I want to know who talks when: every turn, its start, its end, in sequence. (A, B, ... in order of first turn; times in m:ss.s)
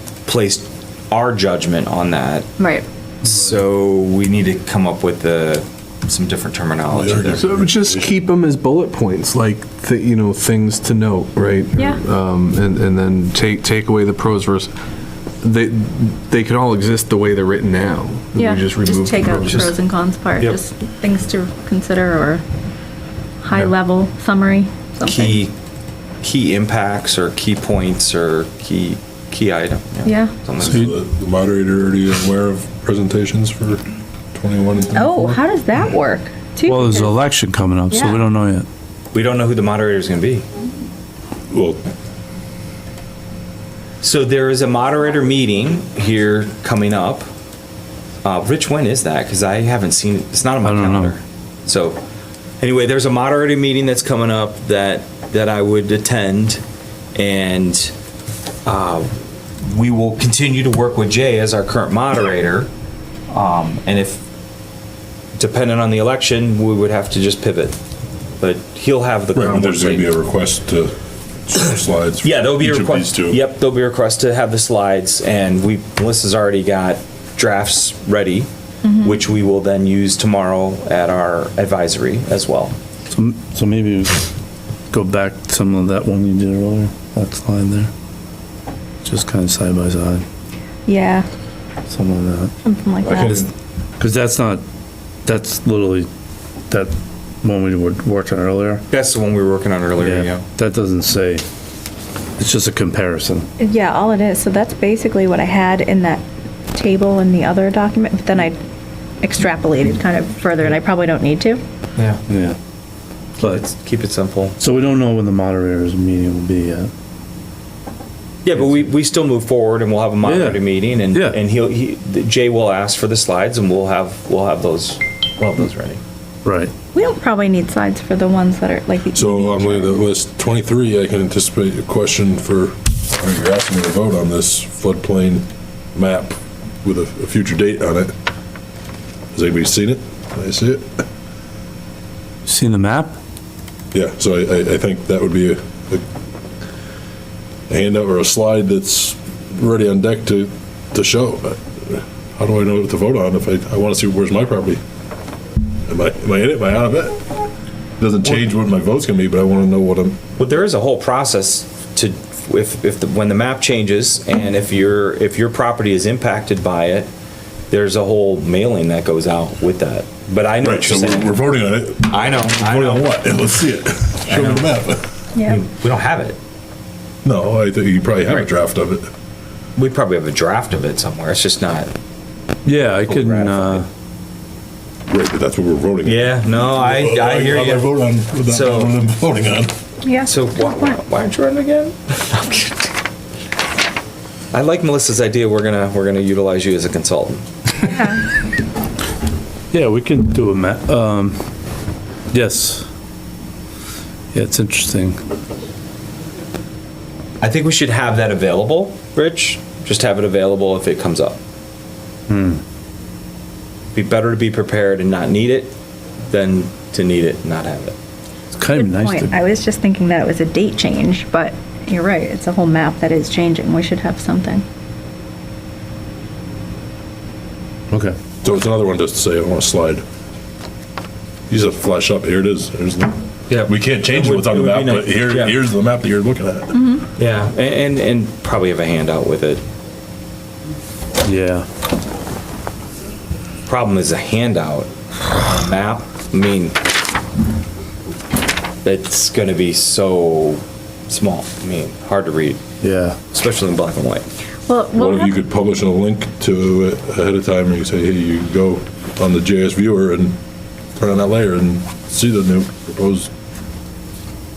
0:00.2-0:02.5 A
0:02.6-0:02.8 B
0:03.2-0:07.5 A
0:06.9-0:08.1 C
0:07.4-0:14.7 D
0:15.4-0:19.7 D
0:18.3-0:22.4 B
0:19.5-0:19.7 A
0:23.4-0:25.4 B
0:25.0-0:25.5 A
0:26.2-0:30.9 A
0:30.0-0:30.3 B
0:30.6-0:33.8 C
0:30.6-0:30.9 E
0:34.3-0:35.4 C
0:34.9-0:37.1 B
0:36.6-0:38.6 E
0:37.9-0:38.2 B
0:39.1-0:40.4 A
0:41.5-0:41.8 C
0:44.0-0:47.3 A
0:48.2-0:52.0 A
0:50.6-0:51.1 E
0:52.6-0:56.6 A
0:57.1-0:57.9 A
0:58.6-1:02.7 A
1:03.3-1:04.2 A
1:05.4-1:07.8 A
1:08.4-1:10.1 A
1:09.3-1:10.9 C
1:11.5-1:13.4 C
1:12.2-1:18.5 A
1:18.8-1:19.2 B
1:19.0-1:22.7 A
1:23.1-1:24.2 E
1:24.9-1:27.9 E
1:29.0-1:30.2 E
1:30.8-1:31.3 B
1:31.9-1:32.5 E
1:32.6-1:33.5 B
1:33.0-1:33.4 C
1:33.1-1:33.4 E
1:34.0-1:34.6 E
1:35.2-1:36.1 E
1:36.7-1:38.8 E
1:38.9-1:40.4 A
1:40.0-1:41.4 E
1:42.4-1:43.5 E
1:43.6-1:48.6 B
1:49.2-1:51.6 B
1:52.3-1:52.6 E
1:53.4-1:54.6 A
1:54.6-1:56.9 E
1:58.4-2:06.0 A
2:00.2-2:01.4 E
2:06.4-2:06.7 E
2:06.9-2:10.0 B
2:09.1-2:18.1 C
2:19.3-2:21.0 C
2:22.4-2:23.2 E
2:23.9-2:26.0 C
2:27.7-2:34.8 C
2:35.9-2:37.2 C
2:38.0-2:40.2 C
2:40.4-2:47.1 A
2:47.7-2:51.4 A
2:50.6-2:55.0 C
2:52.0-2:53.1 A
2:54.3-2:54.7 A
2:55.4-2:56.4 A
2:57.2-2:59.1 C
2:59.8-3:01.9 A
3:02.6-3:03.9 E
3:03.0-3:03.8 A
3:05.1-3:09.7 C
3:06.0-3:08.9 A
3:10.0-3:10.9 B
3:10.2-3:12.9 A
3:14.5-3:17.4 A
3:17.8-3:18.2 B
3:19.7-3:21.4 E
3:22.3-3:22.9 E
3:24.3-3:25.2 E
3:27.4-3:31.4 A
3:32.3-3:32.6 E
3:33.9-3:35.7 A
3:36.3-3:38.0 A
3:38.5-3:39.3 E
3:38.7-3:44.6 B
3:47.9-3:48.2 E
3:48.4-3:50.0 C
3:51.5-3:56.8 C
3:53.5-3:55.5 A
3:56.7-3:57.0 B
3:57.2-3:59.6 A
4:01.2-4:01.7 E
4:03.6-4:06.8 A
4:08.8-4:12.6 A
4:12.8-4:13.2 E
4:13.3-4:14.2 A
4:14.7-4:15.3 B
4:15.0-4:20.4 C
4:21.0-4:23.3 C